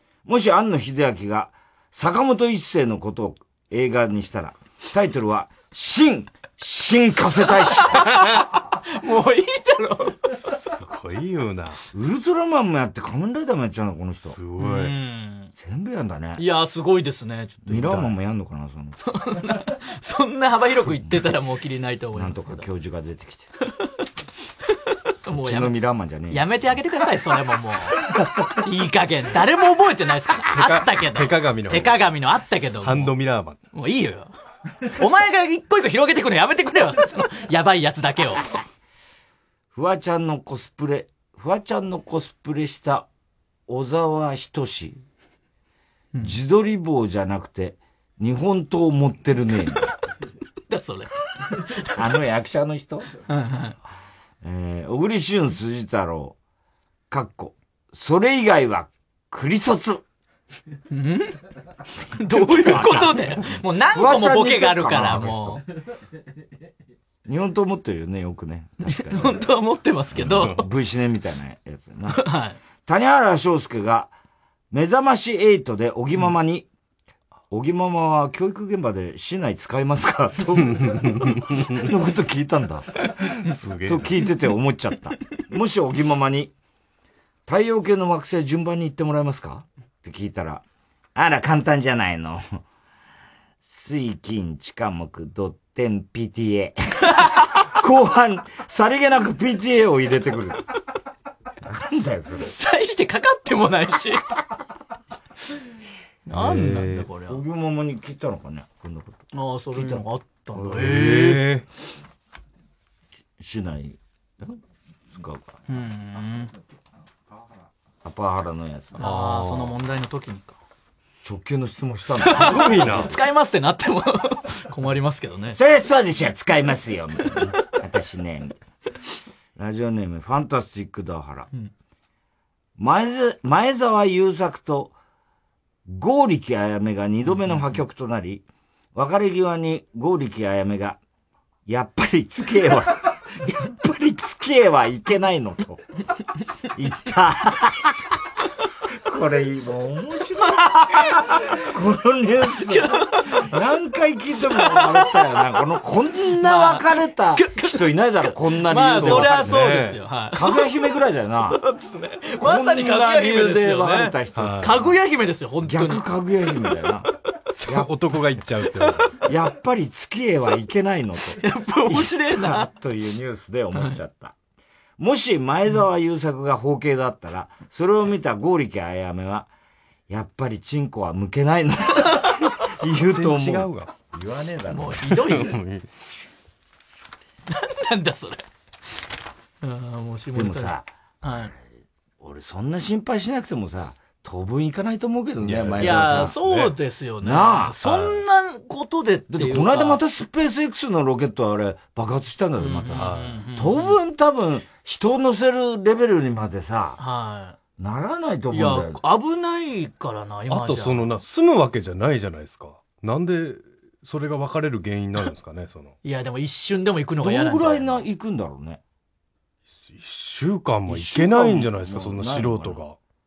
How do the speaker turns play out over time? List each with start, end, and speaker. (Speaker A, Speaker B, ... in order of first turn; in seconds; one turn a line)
Speaker A: 0.2-8.1
Speaker B: 7.8-10.4
Speaker C: 10.5-11.8
Speaker A: 11.9-14.4
Speaker C: 14.3-14.9
Speaker B: 14.6-15.5
Speaker A: 15.6-16.4
Speaker B: 16.4-17.9
Speaker A: 17.6-19.0
Speaker C: 17.7-18.1
Speaker B: 19.1-22.6
Speaker A: 22.1-23.5
Speaker B: 25.2-25.7
Speaker A: 25.3-26.4
Speaker B: 26.3-28.0
Speaker B: 28.6-33.1
Speaker C: 30.5-32.1
Speaker C: 32.8-33.6
Speaker B: 33.7-34.3
Speaker B: 34.9-38.5
Speaker A: 39.7-43.1
Speaker A: 43.7-45.0
Speaker A: 46.2-49.9
Speaker B: 50.7-51.1
Speaker A: 51.9-53.0
Speaker B: 53.3-53.7
Speaker A: 54.4-56.4
Speaker A: 57.1-60.0
Speaker B: 60.9-61.4
Speaker B: 62.2-65.6
Speaker A: 62.3-65.6
Speaker A: 67.2-69.5
Speaker B: 68.8-70.6
Speaker A: 70.1-72.2
Speaker B: 72.1-72.6
Speaker A: 72.9-74.1
Speaker A: 74.7-76.7
Speaker A: 77.5-82.8
Speaker C: 80.7-81.8
Speaker C: 83.4-84.1
Speaker A: 83.8-86.5
Speaker A: 87.5-90.6
Speaker A: 91.1-92.6
Speaker A: 93.6-100.6
Speaker A: 101.6-102.5
Speaker B: 102.5-104.2
Speaker B: 106.2-107.4
Speaker C: 106.3-107.0
Speaker A: 107.2-110.0
Speaker B: 109.3-111.4
Speaker A: 110.5-111.0
Speaker C: 110.7-111.6
Speaker A: 113.4-114.6
Speaker A: 115.1-115.6
Speaker B: 115.7-116.5
Speaker A: 118.0-119.0
Speaker B: 119.0-120.6
Speaker C: 119.0-119.7
Speaker A: 121.2-123.0
Speaker B: 122.2-125.6
Speaker C: 122.3-123.1
Speaker A: 125.5-128.6
Speaker A: 129.6-131.5
Speaker A: 132.8-134.9
Speaker A: 135.8-141.0
Speaker B: 137.5-137.7
Speaker A: 141.7-145.8
Speaker A: 146.7-148.0
Speaker A: 149.0-159.6
Speaker B: 152.6-153.4
Speaker B: 154.5-155.1
Speaker B: 156.4-157.8
Speaker B: 158.6-160.7
Speaker C: 158.9-160.0
Speaker A: 160.3-161.6
Speaker B: 161.5-166.0
Speaker A: 162.4-164.9
Speaker C: 164.3-164.7
Speaker A: 165.6-167.1
Speaker C: 167.7-169.2
Speaker A: 169.2-174.3
Speaker B: 171.4-172.7
Speaker A: 175.0-179.5
Speaker A: 180.1-185.0
Speaker C: 182.9-183.9
Speaker B: 184.7-185.6
Speaker C: 185.1-185.8
Speaker B: 187.5-188.4
Speaker B: 189.6-191.5
Speaker A: 190.3-190.9
Speaker A: 192.2-196.3
Speaker C: 195.4-196.7
Speaker B: 195.8-200.0
Speaker A: 197.2-197.8
Speaker C: 197.8-198.2
Speaker A: 199.3-207.0
Speaker B: 202.6-203.9
Speaker C: 202.9-203.4
Speaker B: 207.0-207.6
Speaker A: 207.8-209.0
Speaker B: 208.5-211.1
Speaker C: 210.5-215.9
Speaker B: 216.0-218.0
Speaker A: 217.2-218.8
Speaker C: 219.9-222.9
Speaker A: 220.9-222.8